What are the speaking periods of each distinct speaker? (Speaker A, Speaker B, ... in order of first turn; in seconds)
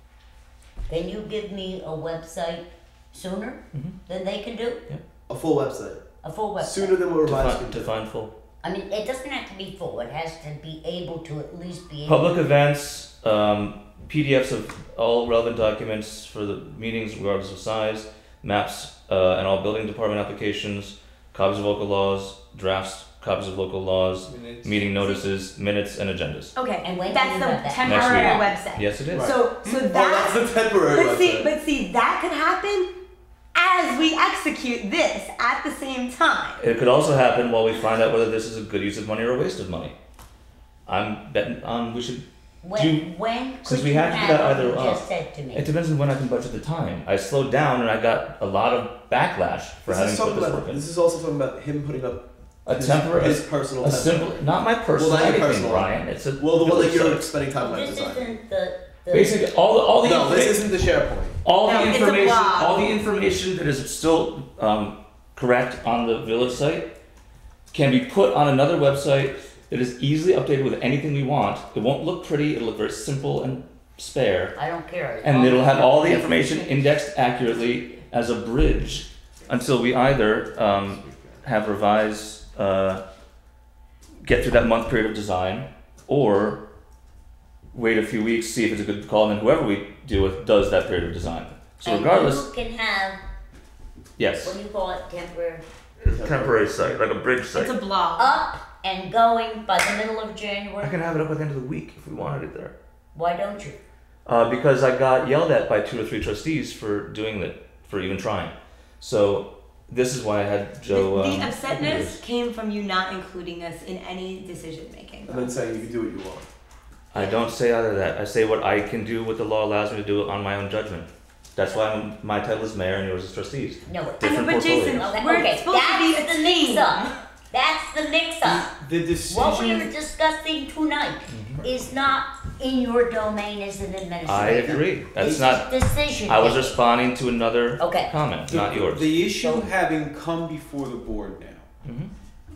Speaker A: 0.9-4.8, 6.2-7.0, 8.6-12.4, 26.8-28.5, 42.6-45.7, 57.6-59.4, 74.5-76.4, 91.8-93.2, 94.4-95.6, 98.2-100.9, 103.1-103.8, 117.1-117.4, 123.8-124.3, 124.9-128.7, 129.3-136.8, 137.8-138.1, 139.2-139.7
Speaker B: 5.3-6.0, 6.6-7.9, 29.1-31.5, 49.9-54.4, 54.9-58.4, 60.0-61.4, 80.6-81.4, 96.1-96.9, 115.3-116.5
Speaker C: 7.2-8.3, 12.1-26.5, 27.8-29.3, 36.6-39.9, 40.9-43.0, 43.6-50.8, 52.6-57.3, 59.1-60.7, 61.4-66.9, 67.7-74.5, 75.2-83.0, 84.2-86.6, 87.7-92.5, 94.2-94.6, 96.0-97.7, 100.8-102.7, 104.2-112.2, 117.1-125.1, 131.3-131.7, 134.2-135.7, 136.2-139.1, 141.8-142.1
Speaker D: 24.9-25.2, 26.6-32.9, 33.5-36.6, 61.6-62.9, 97.5-98.4, 110.9-115.5, 124.2-127.1
Speaker E: 128.4-129.9, 135.2-135.6, 138.5-141.7